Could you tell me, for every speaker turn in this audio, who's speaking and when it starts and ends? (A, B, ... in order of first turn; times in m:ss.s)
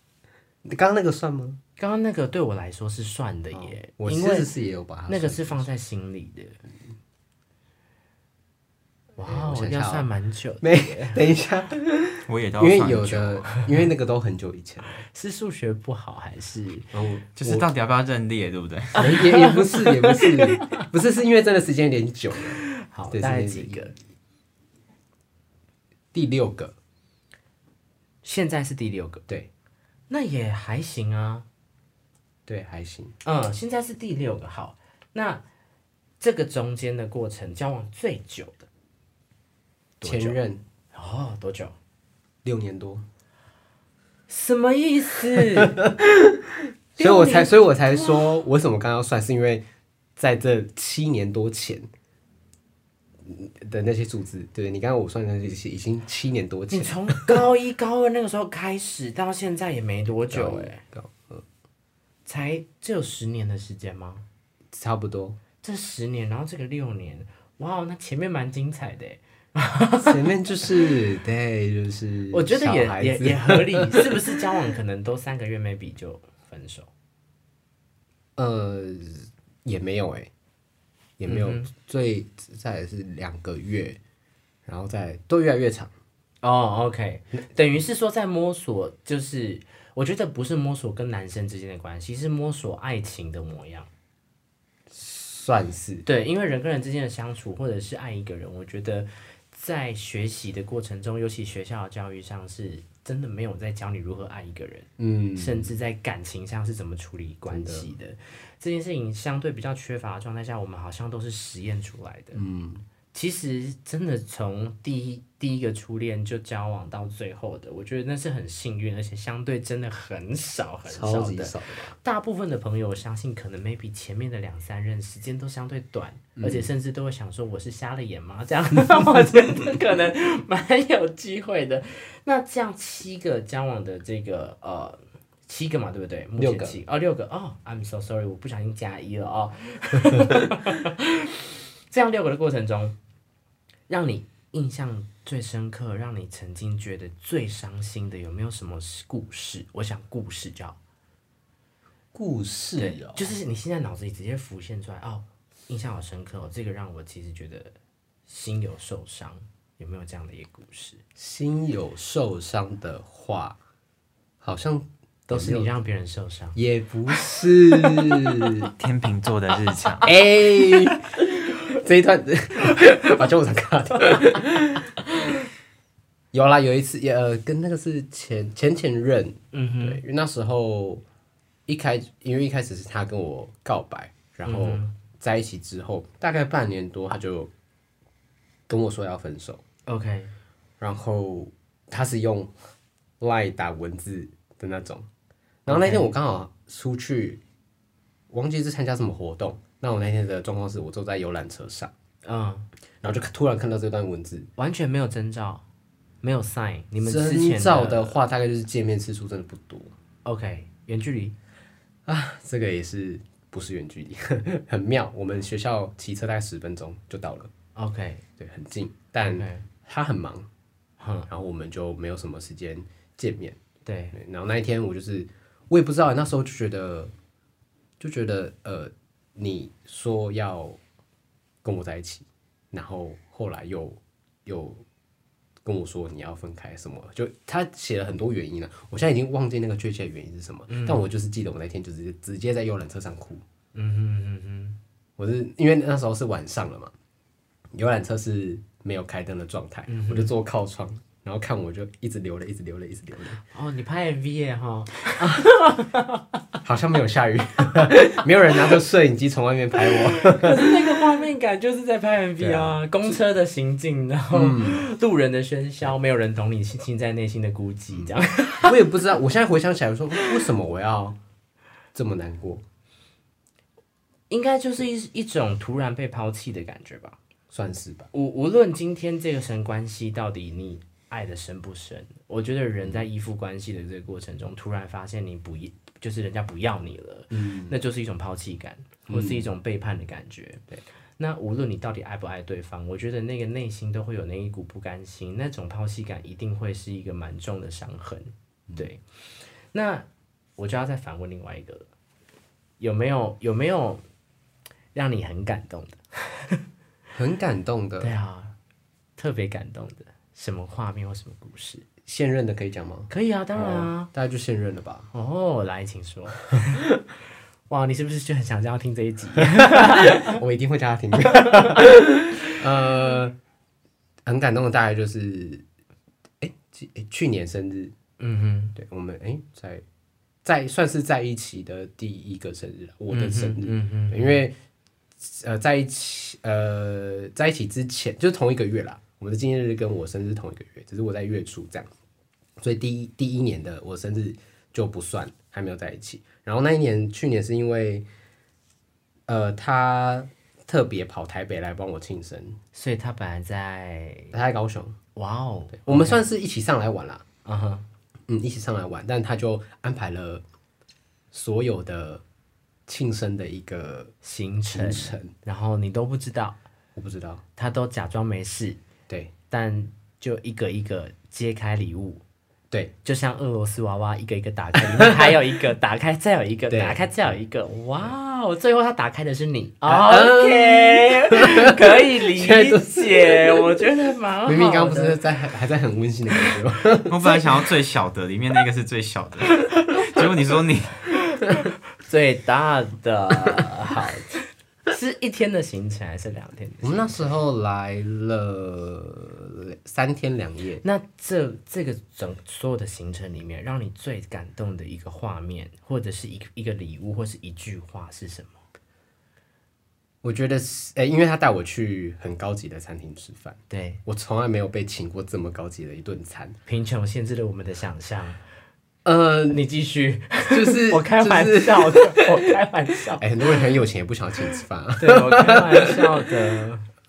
0:00.6-0:01.6 A
0:01.8-0:04.5 B
0:04.0-0:05.7 A
0:05.1-0:06.6 B
0:09.2-0:11.2 B
0:09.2-0:10.1 A
0:10.6-0:15.0 A
0:12.3-0:13.5 C
0:15.1-0:16.9 B
0:16.9-0:17.7 A
0:17.4-0:19.2 C
0:19.0-0:23.9 A
0:19.0-0:20.8 B
0:22.7-0:23.9 B
0:26.1-0:26.7 A
0:28.2-0:29.2 B
0:30.1-0:31.5 B
0:32.5-0:33.2 A
0:33.2-0:35.4 B
0:36.2-0:38.7 B
0:40.0-0:40.4 B
0:40.0-0:40.6 A
0:40.9-0:41.8 B
0:42.4-0:43.0 A
0:44.3-0:45.9 B
0:45.6-0:46.4 A
0:47.0-0:49.6 A
0:47.0-0:48.2 B
0:50.2-0:51.9 A
0:53.2-0:57.4 A
0:56.7-1:00.8 B
1:00.3-1:01.4 A
1:02.3-1:04.2 B
1:04.7-1:05.4 A
1:05.6-1:10.2 B
1:10.0-1:14.2 A
1:12.3-1:16.9 B
1:18.4-1:20.3 A
1:21.2-1:24.0 A
1:21.3-1:21.7 B
1:24.7-1:25.9 A
1:26.4-1:33.9 B
1:34.9-1:36.1 A
1:36.0-1:52.4 B
1:45.0-1:45.8 A
1:47.5-1:47.9 A
1:52.3-1:52.8 A
1:53.1-2:23.0 B
2:00.9-2:02.0 A
2:06.4-2:06.7 A
2:08.8-2:09.3 A
2:16.4-2:16.8 A
2:23.9-2:30.8 B
2:32.1-2:33.3 A
2:32.8-2:37.7 B
2:38.3-2:41.0 B
2:41.2-2:43.6 A
2:44.4-2:45.7 A
2:45.3-2:46.6 B
2:46.6-2:48.7 A
2:47.3-2:48.2 B
2:48.7-2:50.1 C
2:50.0-2:54.9 A
2:56.3-3:01.0 A
2:59.5-3:00.0 B
3:01.7-3:07.5 A
3:04.4-3:04.9 B
3:08.7-3:09.6 A
3:09.9-3:10.3 B
3:10.8-3:12.5 A
3:13.2-3:15.1 A
3:15.7-3:17.4 A
3:15.7-3:16.1 B
3:18.3-3:21.9 A
3:22.2-3:22.7 B
3:23.0-3:24.5 A
3:24.6-3:25.6 B
3:26.2-3:28.2 B
3:27.0-3:29.9 A
3:30.2-3:31.4 B
3:32.1-3:37.5 A
3:37.8-3:38.2 B
3:38.4-3:40.5 A
3:39.2-3:39.7 B
3:41.0-3:41.3 B
3:41.3-3:43.6 A
3:43.9-3:44.2 B
3:44.1-3:47.1 A
3:48.0-3:50.8 A
3:51.6-3:54.8 A
3:55.6-4:03.4 A
4:00.7-4:01.0 B
4:03.7-4:04.8 B
4:05.2-4:06.9 A
4:07.7-4:13.4 A
4:09.9-4:10.3 B
4:13.5-4:16.3 B
4:16.6-4:21.0 A
4:17.9-4:18.2 B
4:19.8-4:28.8 B
4:22.4-4:23.1 A
4:24.3-4:24.8 A
4:28.6-4:31.2 A
4:31.9-4:32.6 A
4:34.3-4:37.2 B
4:37.5-4:38.1 A
4:38.1-4:50.6 B
4:47.3-4:47.8 A
4:49.1-4:49.5 A
4:51.2-4:59.0 B
4:59.7-5:01.9 B
5:02.8-5:04.0 B
5:04.9-5:06.6 B
5:07.2-5:08.1 A
5:08.0-5:08.6 B
5:09.2-5:11.8 B
5:12.0-5:15.1 A
5:13.1-5:14.1 B
5:15.1-5:16.8 B
5:17.7-5:20.3 B
5:19.6-5:23.4 A
5:24.2-5:25.6 A
5:26.4-5:27.9 A
5:28.2-5:28.8 B
5:28.8-5:29.8 A
5:30.4-5:34.6 A
5:33.1-5:34.4 B
5:35.2-5:41.9 A
5:42.6-5:48.1 A
5:49.3-5:52.6 A
5:52.7-5:54.4 B
5:54.3-5:55.0 A
5:55.2-5:56.2 B
5:55.9-5:57.2 A
5:57.4-5:57.9 B
5:58.3-6:00.4 A
6:01.3-6:02.2 A
6:02.9-6:04.1 A
6:04.2-6:06.6 B
6:04.7-6:05.3 A
6:07.0-6:07.4 A
6:07.6-6:08.8 B
6:09.5-6:12.2 B
6:13.0-6:25.2 B
6:14.8-6:15.4 A
6:16.7-6:17.1 A
6:19.8-6:23.8 A
6:24.5-6:27.4 A
6:27.1-6:31.1 C
6:31.3-6:34.3 B
6:34.9-6:37.3 B
6:36.8-6:40.8 A
6:40.8-6:48.6 B
6:50.2-6:56.6 A
6:53.7-6:54.0 B
6:56.7-6:58.4 B
6:59.0-6:59.6 A
6:59.5-7:03.6 B
7:00.5-7:02.5 A
7:03.2-7:06.3 A
7:05.0-7:06.9 B